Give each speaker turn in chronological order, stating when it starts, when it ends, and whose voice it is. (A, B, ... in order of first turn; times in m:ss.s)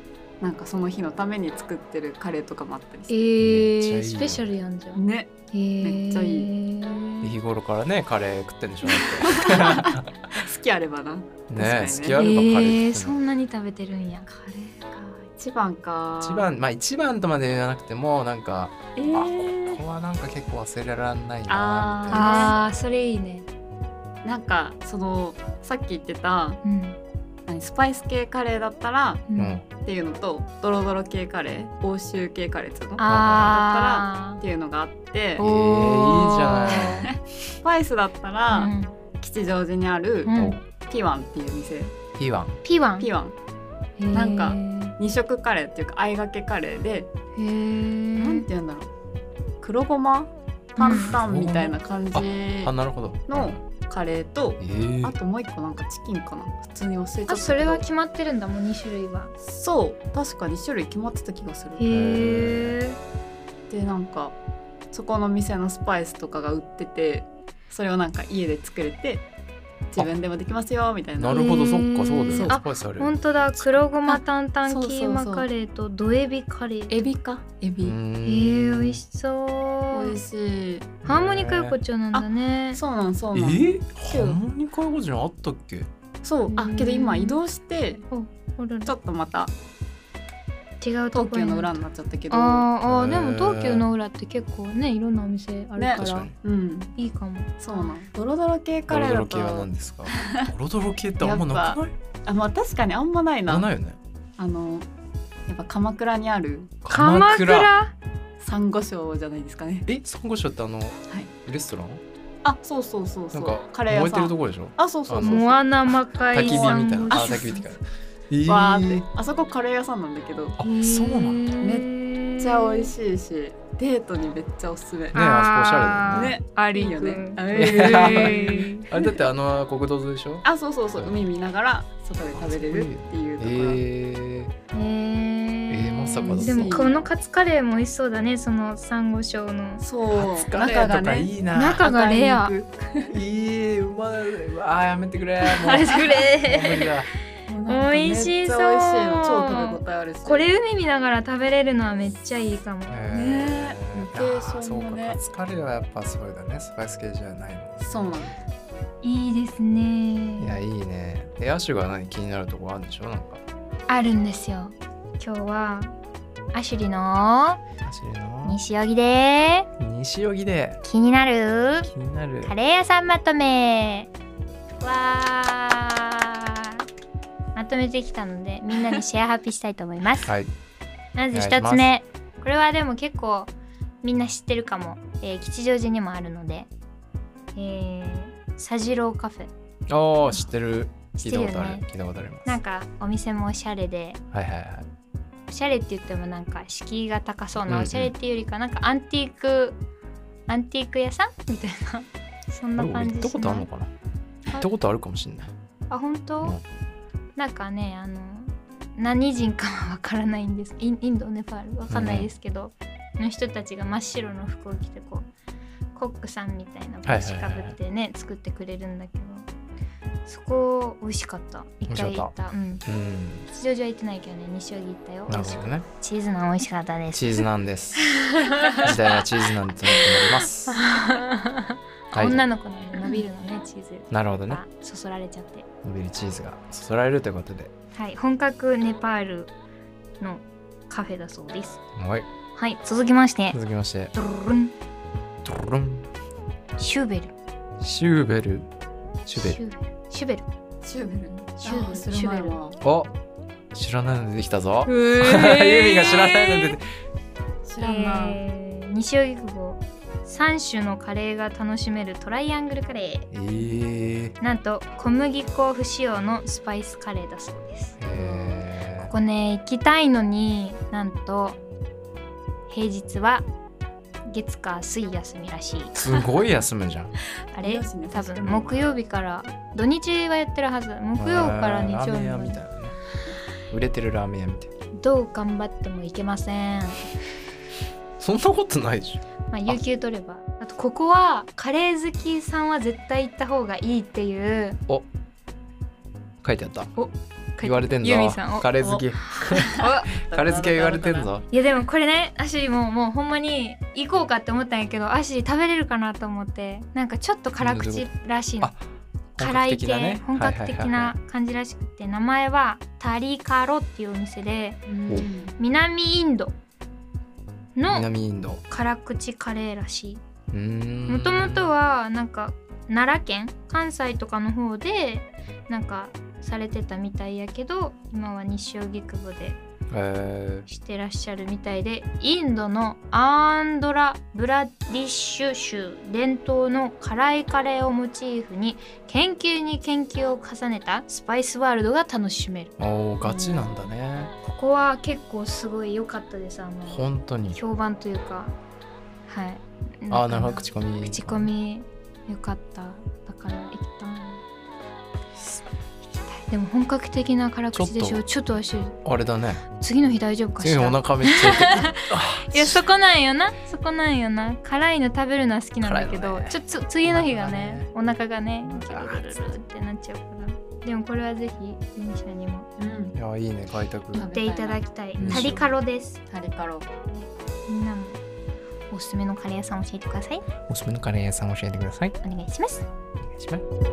0:00.4-0:03.2 A
0:03.1-0:07.3 B
0:03.4-0:04.5 C
0:04.9-0:06.5 A
0:07.2-0:10.1 C
0:08.9-0:12.2 A
0:11.5-0:13.2 C
0:12.1-0:14.3 B
0:14.3-0:16.5 A
0:16.2-0:22.6 C
0:19.0-0:19.8 A
0:21.5-0:22.6 A
0:22.1-0:23.5 B
0:24.2-0:26.6 A
0:26.6-0:27.0 B
0:27.5-0:29.2 A
0:29.3-0:29.6 B
0:29.4-0:29.6 C
0:29.8-0:35.4 A
0:33.0-0:34.4 B
0:33.1-0:33.5 C
0:35.4-0:37.0 B
0:35.4-0:37.1 C
0:36.7-0:42.0 A
0:38.5-0:38.9 B
0:40.2-0:40.6 B
0:42.2-0:42.6 C
0:42.6-0:43.1 B
0:43.0-0:43.4 A
0:44.0-0:45.0 B
0:44.1-0:47.1 A
0:47.4-0:48.5 B
0:48.2-0:48.9 A
0:49.6-0:52.7 A
0:50.8-0:51.1 B
0:50.9-0:53.6 C
0:53.3-0:57.8 A
0:54.6-0:55.2 C
0:57.3-0:59.3 B
0:59.4-1:01.9 A
1:01.8-1:03.0 B
1:01.9-1:02.8 C
1:03.7-1:04.4 A
1:04.9-1:09.2 A
1:09.9-1:11.5 A
1:11.2-1:13.8 C
1:11.3-1:17.0 B
1:12.3-1:12.6 A
1:14.1-1:15.5 A
1:16.9-1:18.0 A
1:17.8-1:19.0 C
1:18.2-1:20.2 B
1:19.9-1:20.9 A
1:21.0-1:21.8 C
1:21.0-1:22.8 B
1:22.1-1:24.4 A
1:23.3-1:25.9 C
1:26.2-1:28.0 A
1:26.5-1:27.4 B
1:28.1-1:28.9 B
1:28.8-1:29.5 A
1:30.8-1:31.8 B
1:31.1-1:32.7 A
1:32.3-1:36.3 B
1:32.8-1:33.8 C
1:35.8-1:36.9 A
1:35.9-1:36.3 C
1:37.0-1:38.0 B
1:37.6-1:40.5 A
1:38.9-1:41.9 C
1:41.2-1:43.7 A
1:43.5-1:44.0 C
1:44.4-1:44.9 A
1:45.5-1:46.8 A
1:46.8-1:47.7 C
1:46.9-1:47.9 B
1:48.4-1:49.9 A
1:49.9-1:52.0 C
1:52.4-1:55.6 A
1:53.3-1:55.5 C
1:55.2-1:57.6 B
1:56.3-1:59.1 C
1:56.3-1:57.6 A
1:58.4-2:00.6 A
2:00.6-2:01.4 C
2:00.6-2:02.9 B
2:01.6-2:05.2 A
2:05.1-2:06.4 C
2:05.1-2:08.9 B
2:06.1-2:09.2 A
2:07.5-2:11.2 C
2:10.4-2:13.8 A
2:12.3-2:14.5 C
2:14.7-2:19.8 B
2:15.7-2:16.9 C
2:16.2-2:17.0 A
2:19.8-2:23.1 A
2:20.1-2:21.8 C
2:21.5-2:22.5 B
2:23.1-2:27.1 C
2:25.4-2:26.9 B
2:27.5-2:30.5 A
2:27.7-2:33.2 B
2:32.9-2:37.8 C
2:33.1-2:35.2 A
2:37.8-2:38.4 A
2:39.0-2:40.6 B
2:40.4-2:43.4 C
2:43.9-2:45.9 B
2:46.5-2:47.6 B
2:47.8-2:48.6 C
2:48.4-2:49.7 B
2:49.8-2:50.8 C
2:50.8-2:51.9 B
2:51.9-2:52.5 C
2:52.4-2:54.1 B
2:54.8-2:56.8 B
2:57.5-3:00.3 B
3:00.2-3:00.5 C
3:01.2-3:03.5 B
3:01.3-3:01.9 C
3:04.0-3:06.7 B
3:07.6-3:09.5 B
3:09.9-3:12.6 C
3:11.2-3:11.8 B
3:12.4-3:14.2 B
3:14.3-3:14.9 C
3:15.5-3:19.8 B
3:17.6-3:18.1 C
3:20.5-3:23.7 B
3:22.8-3:23.9 C
3:24.5-3:25.5 C
3:25.9-3:26.6 B
3:27.4-3:35.3 B
3:31.9-3:32.3 C
3:35.9-3:39.4 B
3:37.0-3:37.8 C
3:40.2-3:42.8 B
3:41.9-3:42.3 C
3:42.8-3:43.5 C
3:43.5-3:47.4 B
3:45.3-3:45.8 C
3:47.1-3:48.2 C
3:48.0-3:49.2 B
3:48.8-3:50.9 C
3:49.9-3:55.6 B
3:52.1-3:52.5 C
3:54.1-3:54.6 C
3:55.8-3:57.7 C
3:57.9-3:59.5 B
4:00.2-4:01.8 B
4:02.0-4:02.3 C
4:02.5-4:03.6 B
4:03.5-4:04.1 C
4:04.1-4:04.7 B
4:05.4-4:06.1 C
4:06.8-4:07.3 B
4:07.8-4:08.7 C
4:09.2-4:09.6 C
4:09.3-4:10.4 B
4:10.8-4:12.8 A
4:11.6-4:12.6 B
4:12.8-4:13.1 C
4:13.7-4:16.8 C
4:14.8-4:16.8 B
4:17.6-4:18.4 A
4:17.8-4:23.3 B
4:23.3-4:24.4 C
4:24.4-4:31.6 B
4:28.0-4:29.1 C
4:32.7-4:33.5 B
4:34.2-4:36.0 B
4:36.0-4:37.1 C
4:37.5-4:42.6 B
4:37.5-4:38.8 A
4:41.2-4:43.0 C
4:43.7-4:44.7 C
4:45.0-4:47.0 B
4:48.2-4:49.8 C
4:49.5-4:54.8 B
4:56.4-4:56.9 C
4:57.0-5:00.1 B
4:57.6-5:01.5 C
4:58.8-5:01.3 A
5:01.5-5:08.7 B
5:07.6-5:08.1 C
5:09.3-5:11.2 C
5:09.4-5:14.8 B
5:14.9-5:15.5 A
5:15.6-5:16.5 B
5:17.8-5:18.1 B
5:17.9-5:18.6 C
5:18.7-5:20.2 B
5:20.5-5:21.7 C
5:21.1-5:29.6 B
5:29.9-5:30.7 C
5:30.7-5:42.7 B
5:42.8-5:44.3 C
5:44.4-5:48.6 B
5:46.9-5:47.6 C
5:49.3-5:54.4 B
5:50.1-5:51.5 C
5:55.4-5:55.6 C
5:56.1-5:59.0 B
5:57.7-5:58.2 C
5:59.0-5:59.6 C
5:59.8-6:12.7 B
6:00.6-6:02.8 C
6:05.8-6:07.9 C
6:08.6-6:09.5 C
6:12.8-6:13.2 A
6:13.1-6:14.3 C
6:14.1-6:16.2 B
6:14.1-6:15.6 A
6:15.2-6:15.6 C
6:16.3-6:16.9 A
6:17.1-6:18.2 B
6:18.9-6:20.4 B
6:20.7-6:22.2 C
6:22.2-6:22.8 B
6:23.2-6:23.6 C